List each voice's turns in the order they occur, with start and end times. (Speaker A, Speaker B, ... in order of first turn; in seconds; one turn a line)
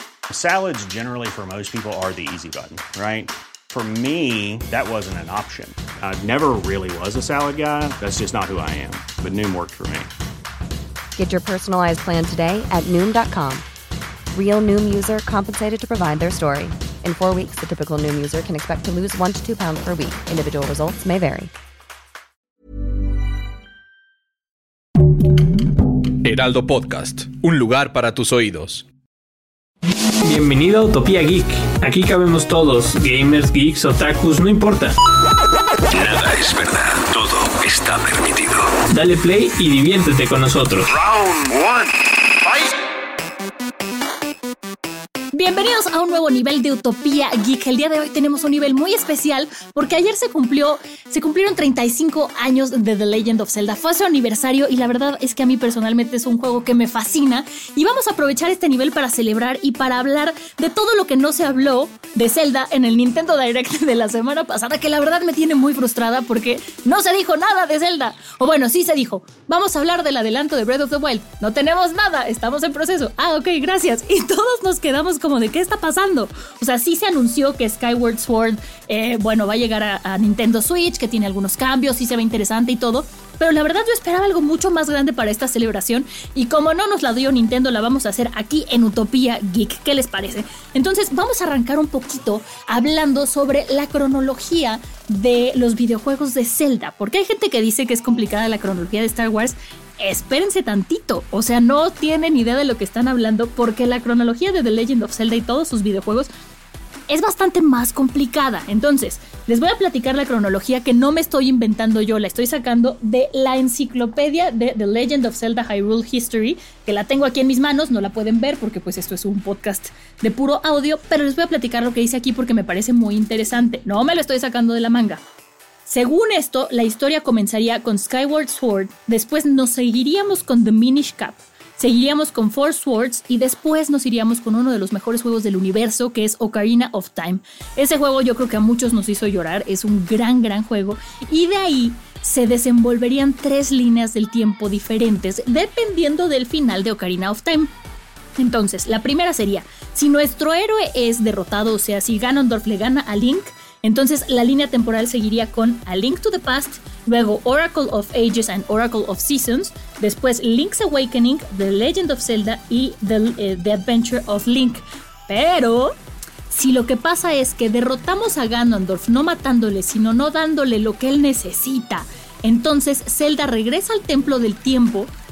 Speaker A: 0.3-10.1
Speaker B: 11.2-13.6
Speaker B: 14.3-21.5
Speaker C: 26.2-28.9
Speaker D: 30.2-34.9
Speaker E: 35.9-38.7
Speaker D: 38.9-41.0
Speaker E: 41.1-41.9
Speaker F: 45.3-106.3
Speaker F: 107.1-125.2
Speaker F: 125.8-147.7
Speaker F: 148.4-166.0
Speaker F: 166.5-175.1